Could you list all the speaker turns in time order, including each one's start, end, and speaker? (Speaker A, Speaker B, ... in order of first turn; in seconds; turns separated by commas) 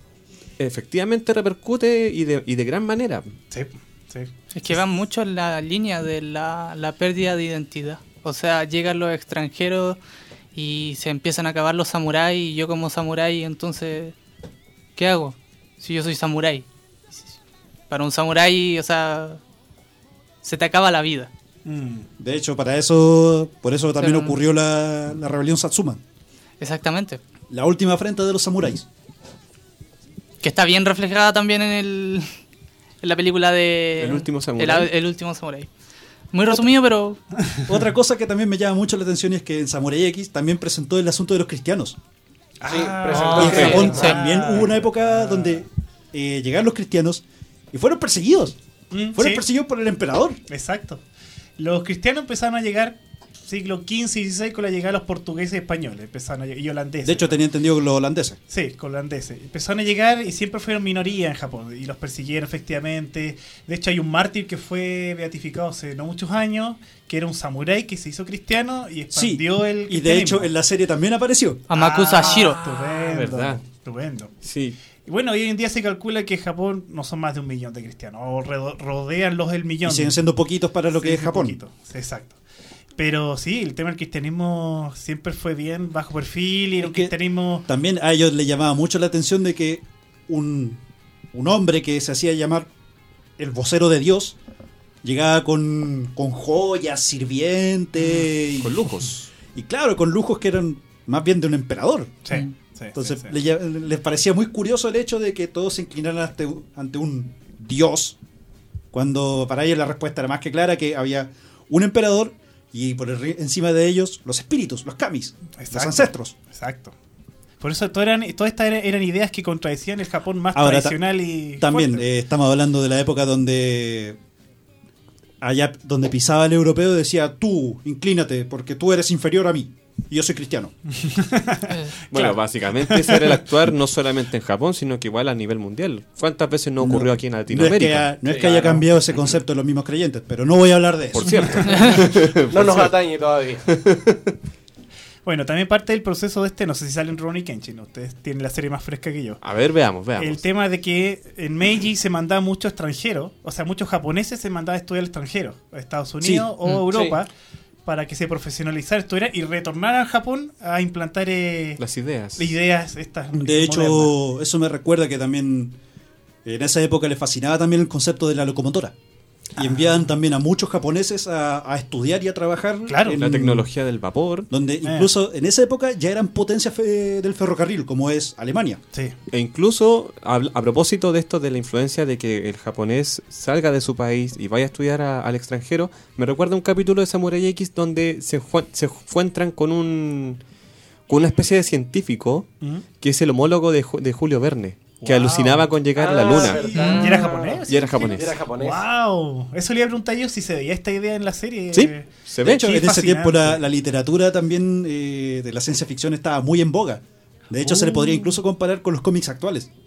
Speaker A: 0.6-3.3, Speaker B: 3.5-4.8, Speaker C: 4.5-10.0, Speaker C: 10.5-14.1, Speaker C: 14.9-16.7, Speaker C: 17.9-19.4, Speaker C: 20.4-21.3, Speaker B: 21.7-22.1, Speaker D: 22.2-26.0, Speaker C: 24.0-24.4, Speaker C: 26.6-27.2, Speaker D: 27.5-28.9, Speaker C: 30.4-32.3, Speaker C: 33.0-35.7, Speaker A: 34.0-34.9, Speaker C: 36.3-37.2, Speaker D: 37.7-42.0, Speaker B: 42.6-45.6, Speaker E: 42.7-44.1, Speaker C: 43.1-44.2, Speaker D: 43.3-48.6, Speaker A: 43.4-43.9, Speaker B: 48.9-49.4, Speaker D: 49.1-50.4, Speaker B: 50.5-51.0, Speaker B: 51.6-57.4, Speaker D: 57.0-58.4, Speaker B: 58.5-70.5, Speaker D: 69.1-71.6, Speaker C: 71.7-72.6, Speaker B: 71.7-74.3, Speaker A: 72.9-73.6, Speaker A: 74.4-74.8, Speaker B: 75.1-80.2, Speaker D: 79.8-81.6, Speaker B: 81.0-82.4, Speaker B: 83.0-87.7, Speaker D: 86.8-87.1, Speaker D: 87.7-90.8, Speaker D: 91.3-92.7, Speaker D: 93.4-94.4, Speaker D: 95.0-98.9, Speaker A: 98.5-99.3, Speaker D: 99.5-102.2, Speaker B: 102.3-103.3, Speaker D: 103.0-108.2, Speaker D: 108.9-116.3, Speaker B: 115.6-116.9, Speaker B: 117.6-122.0, Speaker D: 120.5-124.2, Speaker D: 125.4-130.7, Speaker B: 130.9-133.2, Speaker C: 131.7-131.9, Speaker A: 132.1-138.6, Speaker D: 136.8-141.8, Speaker E: 138.3-138.5, Speaker A: 141.1-142.9, Speaker E: 142.5-143.7, Speaker A: 143.7-144.3, Speaker B: 145.2-149.4, Speaker A: 149.4-150.4, Speaker B: 150.2-157.3, Speaker D: 156.2-156.5, Speaker E: 156.9-157.2, Speaker B: 157.9-161.8, Speaker A: 161.8-162.5, Speaker B: 162.4-164.1, Speaker D: 163.3-165.8, Speaker D: 166.4-168.9, Speaker B: 169.6-170.1, Speaker D: 169.6-173.7, Speaker B: 172.9-173.2, Speaker A: 173.1-174.5, Speaker D: 174.5-178.8, Speaker B: 174.8-175.1, Speaker A: 179.3-190.4, Speaker A: 191.1-192.5, Speaker A: 193.0-197.1, Speaker B: 195.0-195.7, Speaker E: 195.9-198.8, Speaker B: 196.7-203.6, Speaker C: 196.7-197.4, Speaker A: 197.7-198.4, Speaker A: 201.7-202.7, Speaker D: 202.4-209.7, Speaker B: 207.6-208.4